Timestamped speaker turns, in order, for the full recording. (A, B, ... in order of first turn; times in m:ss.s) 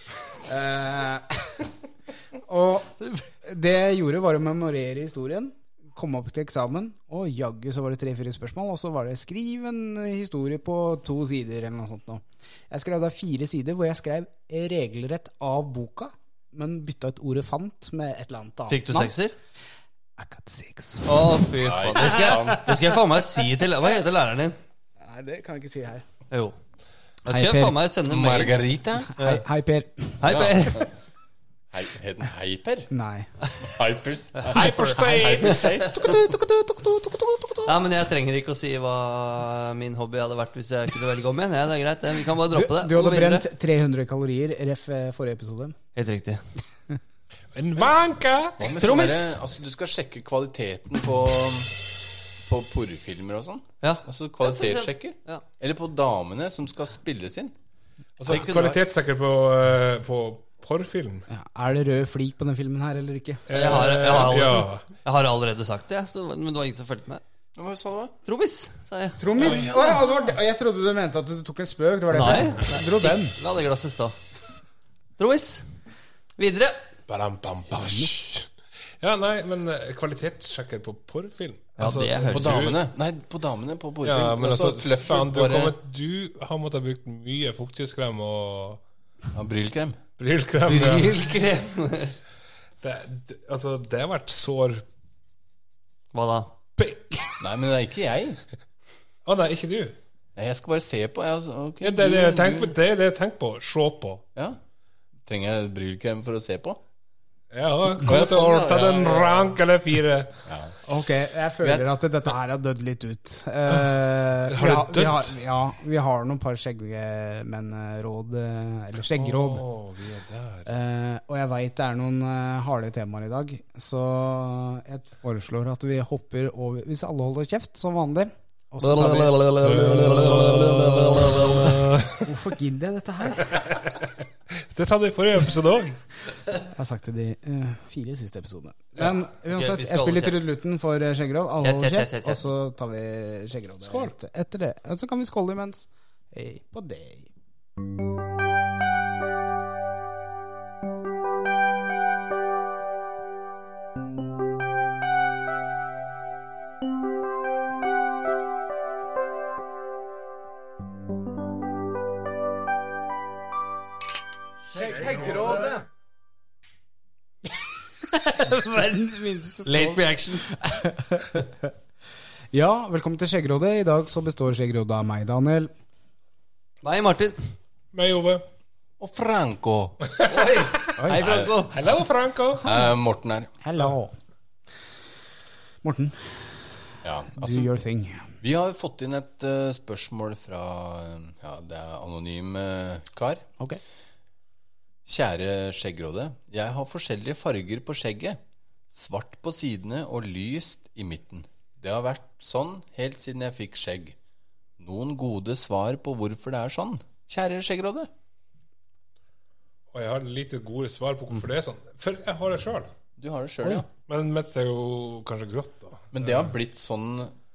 0:00.4-0:01.6 A
0:02.4-0:19.1 A
0:18.7-0:19.3 B
0:20.2-0:21.3 A
0:21.0-0:24.6 B
0:21.6-0:22.8 C
0:22.3-0:22.8 A
0:25.0-0:26.0 A
0:26.3-0:26.6 B
0:27.2-0:28.6 B
0:27.3-0:27.8 A
0:28.1-0:29.1 C
0:29.2-0:30.3 A
0:29.2-0:29.4 B
0:30.2-0:30.9 B
0:30.2-0:30.9 C
0:31.7-0:32.9 C
0:32.9-0:33.3 A
0:33.6-0:36.4 C
0:34.5-0:35.7 D
0:34.6-0:34.9 A
0:35.5-0:35.7 B
0:36.0-0:37.6 A
0:37.6-0:43.4 B
0:42.5-0:45.8 A
0:46.0-0:46.4 B
0:47.5-0:48.7 D
0:48.6-0:51.7 C
0:48.8-0:49.4 B
0:52.4-0:57.5 C
0:53.8-0:55.4 B
0:58.2-1:01.2 D
0:58.3-0:58.8 C
0:58.3-0:58.7 B
1:01.3-1:03.5 A
1:03.5-1:04.8 D
1:03.5-1:07.2 B
1:07.6-1:08.1 C
1:08.2-1:09.2 B
1:09.2-1:13.4 A
1:09.4-1:10.1 C
1:09.4-1:10.0 D
1:12.1-1:14.2 B
1:15.2-1:15.6 B
1:16.4-1:16.8 B
1:17.1-1:22.8 D
1:17.7-1:18.1 A
1:21.8-1:22.7 B
1:22.3-1:25.7 C
1:24.0-1:28.8 D
1:29.3-1:30.0 C
1:30.2-1:31.5 D
1:30.6-1:32.2 B
1:32.8-1:34.8 D
1:36.1-1:36.5 B
1:36.8-1:37.4 D
1:37.4-1:38.4 C
1:39.2-1:40.0 D
1:40.4-1:42.7 C
1:41.8-1:44.2 D
1:45.2-1:46.8 C
1:47.5-1:50.4 D
1:48.0-1:49.6 C
1:50.4-1:50.8 C
1:50.8-1:59.6 A
1:51.6-1:51.9 C
1:53.7-1:53.9 D
1:54.5-1:55.4 D
1:59.1-2:00.7 D
2:00.6-2:09.3 A
2:08.8-2:11.9 B
2:09.6-2:12.3 D
2:12.2-2:13.6 A
2:13.5-2:16.0 D
2:16.7-2:27.3 A
2:19.5-2:20.4 B
2:21.6-2:22.4 B
2:23.8-2:24.1 D
2:44.7-2:45.8 C
2:44.7-2:45.6 A
2:45.0-2:45.8 D
2:48.0-2:51.7 A
2:49.6-2:50.5 B
2:52.5-2:55.7 A
2:56.8-2:57.5 B
2:57.9-2:58.4 D
2:59.0-3:00.2 C
3:00.1-3:00.9 D
3:00.2-3:01.8 B
3:01.0-3:01.5 C
3:01.7-3:02.7 D
3:02.6-3:03.5 C
3:03.6-3:04.2 A
3:05.8-3:06.7 A
3:07.0-3:07.7 C
3:07.3-3:08.3 A
3:08.4-3:13.5 C
3:15.0-3:18.4 C
3:18.9-3:24.2 C
3:24.8-3:28.1 C
3:29.9-3:32.9 D
3:33.2-3:33.9 C
3:34.1-3:36.5 D
3:36.1-3:37.3 C